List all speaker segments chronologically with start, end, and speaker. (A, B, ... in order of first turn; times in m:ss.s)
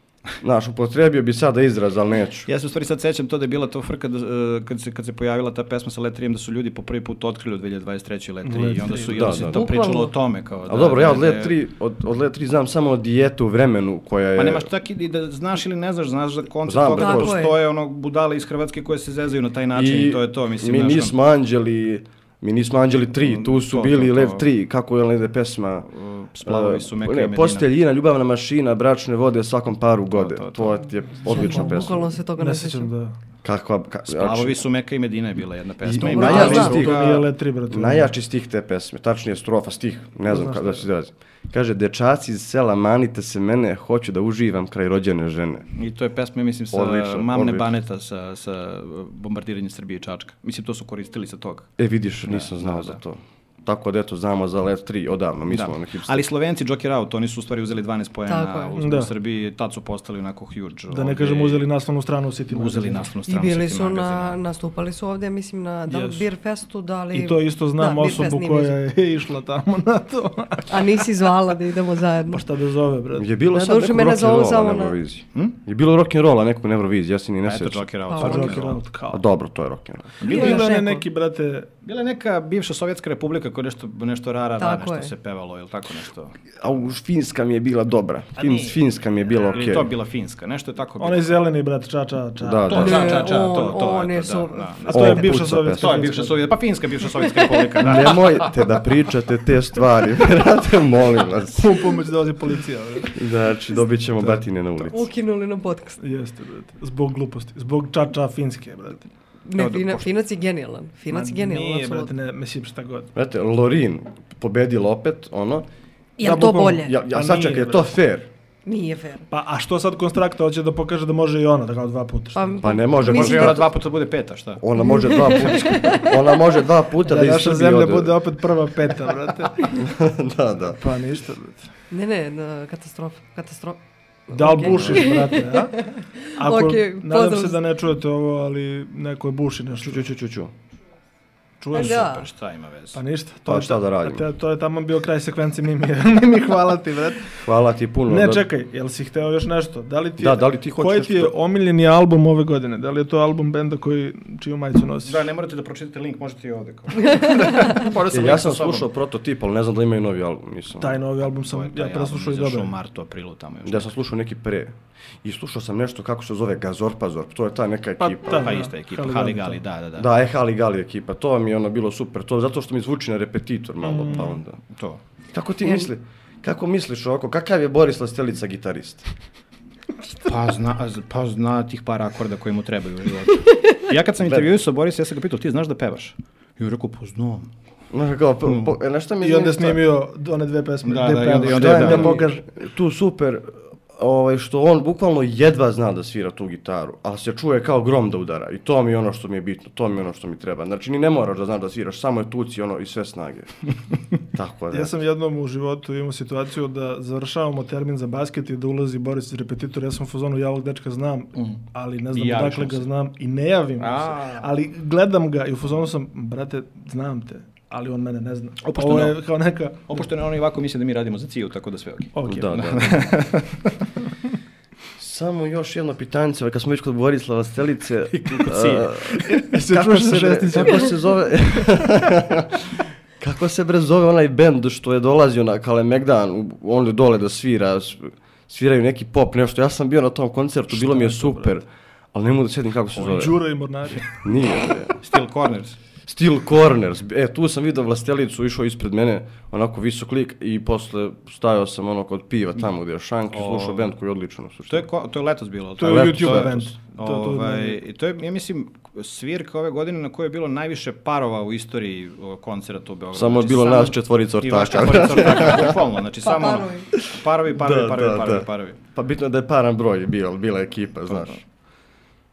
0:00.4-0:02.5 A
0:02.5-0:11.5 B
0:08.4-0:09.3 C
0:09.1-0:09.6 A
0:09.5-0:10.1 D
0:10.7-0:14.7 A
0:14.4-0:21.1 B
0:16.6-0:17.4 A
0:17.0-0:17.6 D
0:19.7-0:25.9 A
0:23.2-0:24.4 B
0:25.9-0:27.7 B
0:26.4-0:32.1 A
0:30.1-0:30.8 B
0:31.2-0:32.9 D
0:31.3-0:33.2 C
0:33.4-0:34.6 A
0:34.1-0:37.3 B
0:35.8-0:45.7 A
0:36.1-0:36.8 D
0:36.2-0:38.1 C
0:40.3-0:40.8 C
0:45.8-0:51.7 B
0:46.7-0:47.7 A
0:51.8-0:56.2 A
0:52.3-0:53.0 B
0:55.5-1:01.7 B
0:58.3-0:58.7 D
0:58.8-0:59.1 C
1:00.9-1:03.0 C
1:02.5-1:04.4 B
1:03.2-1:08.8 D
1:05.9-1:06.2 C
1:07.1-1:11.0 C
1:10.7-1:12.4 D
1:12.3-1:13.3 C
1:13.2-1:20.2 A
1:13.5-1:15.0 D
1:17.4-1:18.8 B
1:18.1-1:18.6 D
1:18.2-1:19.2 C
1:20.2-1:20.7 B
1:20.2-1:21.0 D
1:20.3-1:21.7 C
1:21.8-1:26.3 B
1:24.6-1:25.1 D
1:26.6-1:29.9 A
1:28.4-1:28.8 B
1:29.5-1:31.3 B
1:31.0-1:33.4 C
1:32.4-1:33.4 A
1:32.6-1:35.2 B
1:32.7-1:35.2 D
1:34.8-1:36.5 C
1:34.9-1:36.1 A
1:35.7-1:38.6 B
1:37.8-1:41.9 A
1:41.5-1:43.2 C
1:43.1-1:45.1 A
1:44.8-1:46.0 D
1:46.0-1:49.1 C
1:49.4-1:52.1 D
1:49.6-1:50.1 B
1:51.1-1:53.1 C
1:53.1-1:55.7 A
1:56.2-1:56.9 D
1:56.2-1:57.9 C
1:56.7-1:58.3 A
1:58.6-1:59.2 D
1:59.3-2:02.6 C
2:02.3-2:03.7 D
2:02.6-2:03.7 A
2:03.0-2:04.6 B
2:04.6-2:08.2 A
2:04.8-2:06.1 D
2:07.0-2:09.8 C
2:09.6-2:10.8 A
2:10.7-2:11.6 C
2:11.9-2:17.6 D
2:14.3-2:20.0 C
2:14.7-2:15.1 A
2:19.7-2:20.5 A
2:21.6-2:22.1 C
2:21.7-2:22.3 D
2:21.7-2:23.0 B
2:22.9-2:27.4 C
2:23.4-2:24.2 A
2:27.4-2:28.4 A
2:28.1-2:35.3 C
2:30.2-2:31.3 A
2:35.0-2:38.9 B
2:37.0-2:37.8 D
2:38.1-2:41.0 A
2:40.8-2:42.7 C
2:41.2-2:43.9 B
2:43.6-2:48.6 A
2:48.0-2:49.6 C
2:48.3-2:50.1 B
2:50.0-2:54.6 A
2:53.8-2:54.4 C
2:54.7-2:55.0 B
2:55.3-2:59.1 A
2:55.6-2:55.9 D
3:00.2-3:07.5 B
3:07.9-3:09.8 A
3:09.2-3:12.4 C
3:10.8-3:12.2 B
3:11.5-3:23.5 A
3:24.3-3:24.9 A
3:24.7-3:40.1 C
3:31.4-3:31.6 B
3:32.1-3:32.9 B
3:33.8-3:34.5 B
3:38.6-3:39.2 B
3:39.9-3:43.7 B
3:42.1-3:42.4 C
3:42.2-3:43.1 A
3:45.0-3:52.6 A
3:48.2-3:49.0 B
3:49.2-3:50.9 C
3:53.2-4:03.4 A
4:00.7-4:01.5 C
4:02.9-4:04.2 C
4:04.1-4:05.0 A
4:05.0-4:05.8 B
4:06.1-4:14.9 A
4:13.3-4:13.9 B
4:14.7-4:28.8 B
4:15.8-4:17.8 C
4:15.8-4:16.7 A
4:23.1-4:25.8 A
4:26.2-4:26.9 D
4:27.0-4:31.4 A